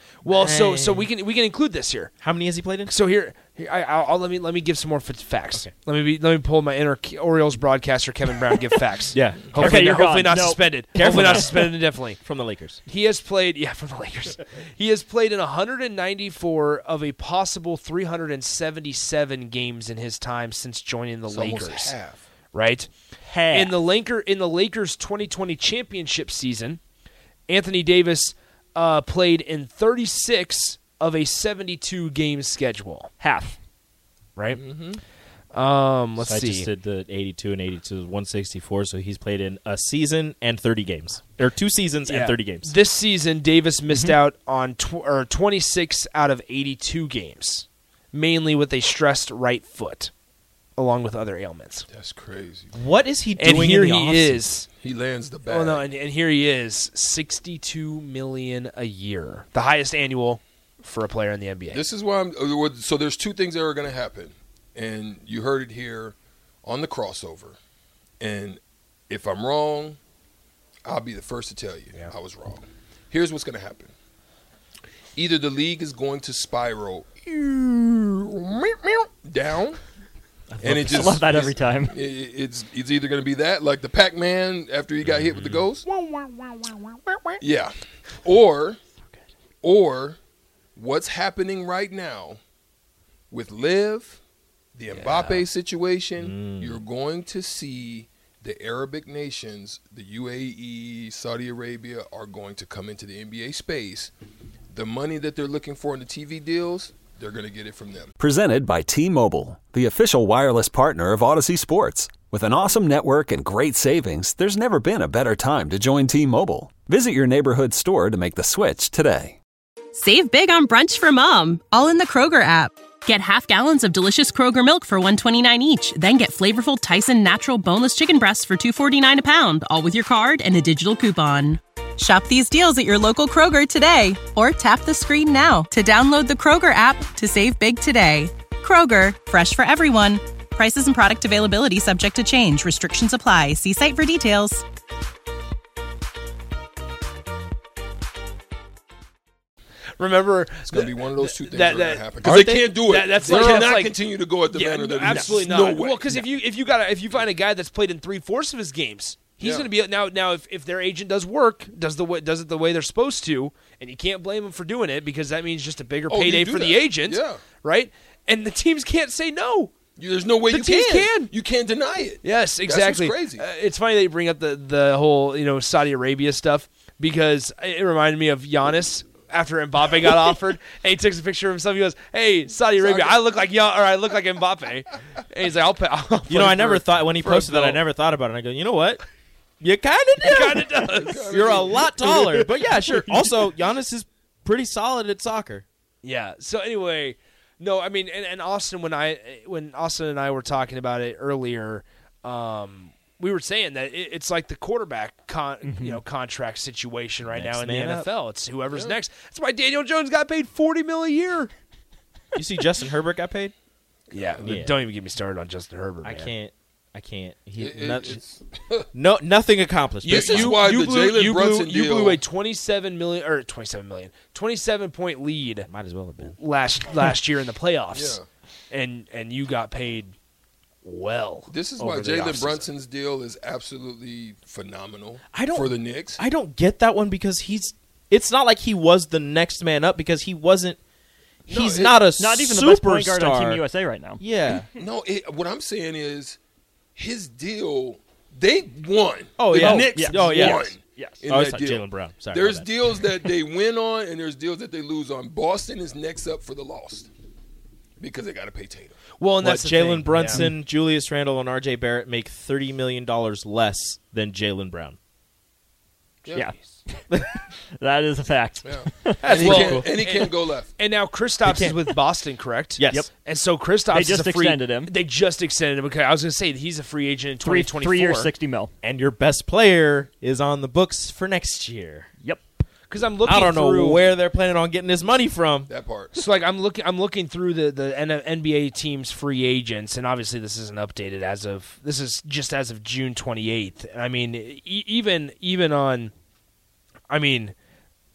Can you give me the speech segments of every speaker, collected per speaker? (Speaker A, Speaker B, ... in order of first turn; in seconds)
Speaker A: 0.2-2.1, 2.9-12.2, 12.8-21.9, 22.5-22.9, 23.5-26.8, 27.5-33.1, 35.5-36.7, 42.0-50.1, 50.8-51.9, 53.4-54.7, 55.5-61.8, 94.9-95.4, 150.0-152.1, 152.8-153.9, 154.5-169.7, 170.5-171.3, 172.2-187.8, 190.2-192.5, 196.0-211.5, 214.1-216.3, 220.0-225.7, 226.2-228.2, 228.7-230.1, 230.8-232.7, 259.2-260.5, 266.3-266.8, 269.2-278.3, 282.9-284.1, 286.1-296.1, 297.1-297.5
Speaker B: 0.3-1.1, 2.2-2.9, 9.1-9.9, 10.9-12.8, 34.6-35.0, 36.2-42.7, 52.7-54.4, 96.3-96.7, 152.3-152.6, 186.3-189.0, 189.6-195.6, 207.3-208.1, 212.3-213.5, 214.4-214.8, 216.0-218.1, 218.9-220.5, 225.7-226.3, 235.3-240.8, 241.5-243.6, 244.2-244.6, 249.4-250.5, 251.3-252.7, 259.4-265.0, 271.4-271.8, 278.8-282.1, 283.2-285.7
Speaker C: 9.6-10.6, 23.2-23.9, 33.2-33.6, 80.8-81.9, 205.7-206.0, 242.2-244.2, 249.5-251.2, 266.4-269.2, 273.9-274.9, 277.4-278.7
Speaker D: 21.3-22.2, 51.9-52.8, 54.8-55.8, 61.7-67.6, 68.2-70.0, 70.8-73.9, 75.2-79.8, 80.6-85.8, 87.4-88.8, 89.6-90.2, 90.8-92.4, 93.3-94.2, 94.8-104.1, 104.7-108.1, 150.7-156.3, 159.4-159.7, 166.1-167.4, 170.0-173.4, 182.8-183.2, 187.2-187.8, 191.0-191.9, 208.7-209.0, 214.1-214.7, 217.6-218.9, 220.0-222.2, 227.9-228.2, 231.5-236.2, 241.5-242.0, 244.5-246.4, 246.9-257.1, 258.0-258.9, 268.6-270.7, 285.7-286.2
Speaker E: 80.7-81.0, 108.2-119.4, 249.6-250.6
Speaker F: 119.9-144.6